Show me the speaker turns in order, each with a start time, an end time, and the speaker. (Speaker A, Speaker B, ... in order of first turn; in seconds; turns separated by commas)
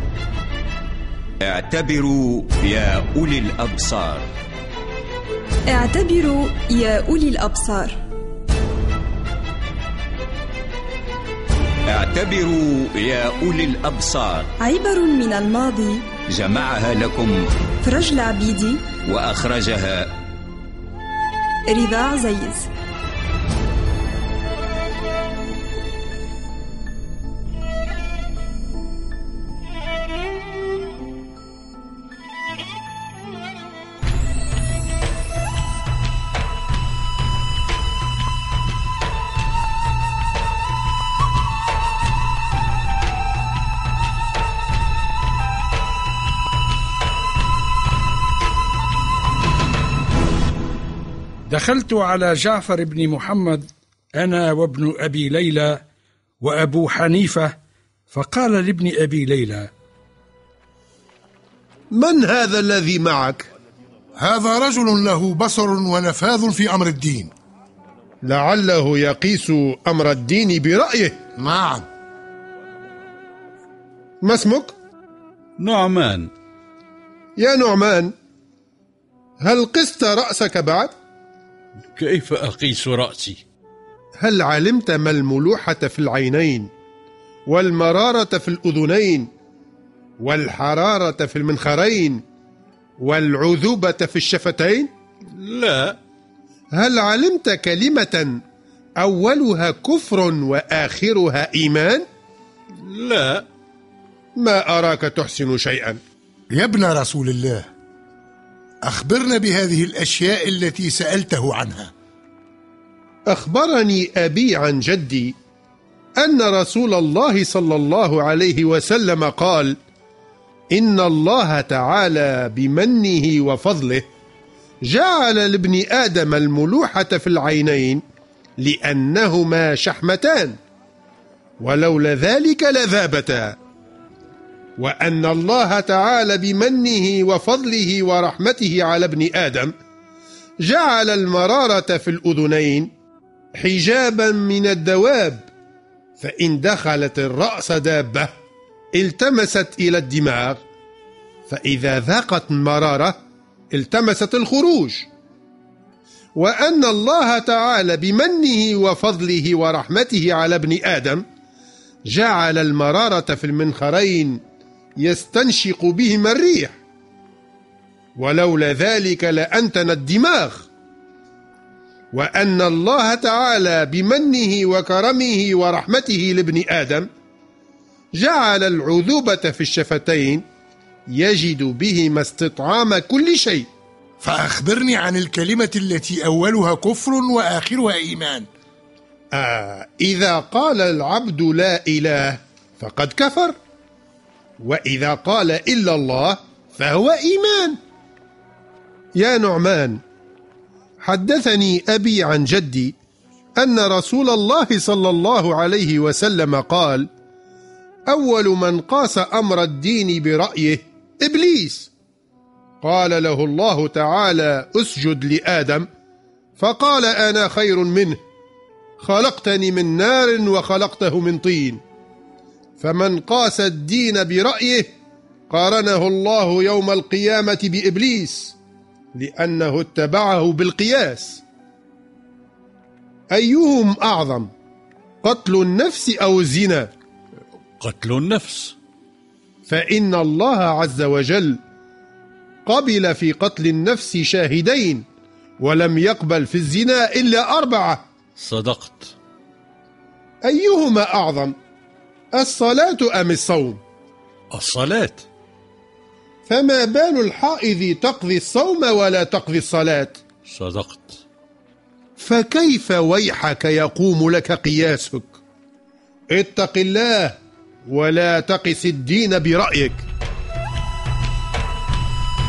Speaker A: 1.4-4.3, Speaker B: 5.7-8.0, Speaker A: 11.9-14.5, Speaker B: 14.6-16.1, Speaker A: 16.3-17.5, Speaker B: 17.8-19.0, Speaker A: 19.0-20.1, Speaker B: 21.7-22.7, Speaker C: 51.5-55.8, Speaker C: 56.4-57.5, Speaker C: 58.1-59.7, Speaker D: 61.9-63.5, Speaker E: 64.2-67.3, Speaker D: 68.2-71.2, Speaker E: 71.4-71.9, Speaker D: 74.2-74.7, Speaker F: 75.6-76.3, Speaker D: 77.4-78.1, Speaker D: 79.4-80.9, Speaker F: 82.0-83.4, Speaker D: 84.2-86.7, Speaker D: 87.5-89.3, Speaker D: 90.2-92.2, Speaker D: 93.0-94.9, Speaker F: 95.4-96.0, Speaker D: 96.7-98.4, Speaker D: 99.0-102.0, Speaker F: 102.8-103.5, Speaker D: 104.4-106.0, Speaker E: 106.5-107.7, Speaker E: 108.8-111.9, Speaker D: 113.3-115.3, Speaker D: 116.2-119.8, Speaker D: 120.7-124.1, Speaker D: 124.8-128.0, Speaker D: 128.6-130.6, Speaker D: 131.6-133.6, Speaker D: 134.8-139.7, Speaker D: 140.6-142.9, Speaker D: 143.5-145.5, Speaker D: 146.2-148.3, Speaker D: 148.9-150.6, Speaker D: 151.5-153.2, Speaker D: 153.7-155.1, Speaker D: 156.3-161.2, Speaker D: 162.1-164.4, Speaker D: 165.0-166.8, Speaker D: 168.2-170.7, Speaker D: 172.1-177.1, Speaker D: 178.2-180.4, Speaker D: 181.1-183.7, Speaker E: 184.2-188.5, Speaker D: 189.3-193.6, Speaker D: 194.6-197.8, Speaker D: 199.2-200.0, Speaker D: 201.0-202.9, Speaker D: 203.6-207.1, Speaker D: 208.1-211.9, Speaker D: 212.8-215.9, Speaker D: 216.6-218.2, Speaker D: 219.0-221.8, Speaker D: 222.8-224.9, Speaker D: 225.5-228.6, Speaker D: 229.2-231.4, Speaker D: 233.3-234.5, Speaker D: 235.2-236.9, Speaker F: 237.8-238.8, Speaker D: 239.7-241.6, Speaker D: 242.7-245.0, Speaker D: 245.6-248.0, Speaker F: 248.4-249.1, Speaker D: 250.4-251.5, Speaker D: 252.3-253.8, Speaker F: 254.5-255.2, Speaker D: 256.5-260.2, Speaker F: 260.4-261.2, Speaker D: 262.2-265.4, Speaker D: 266.3-270.0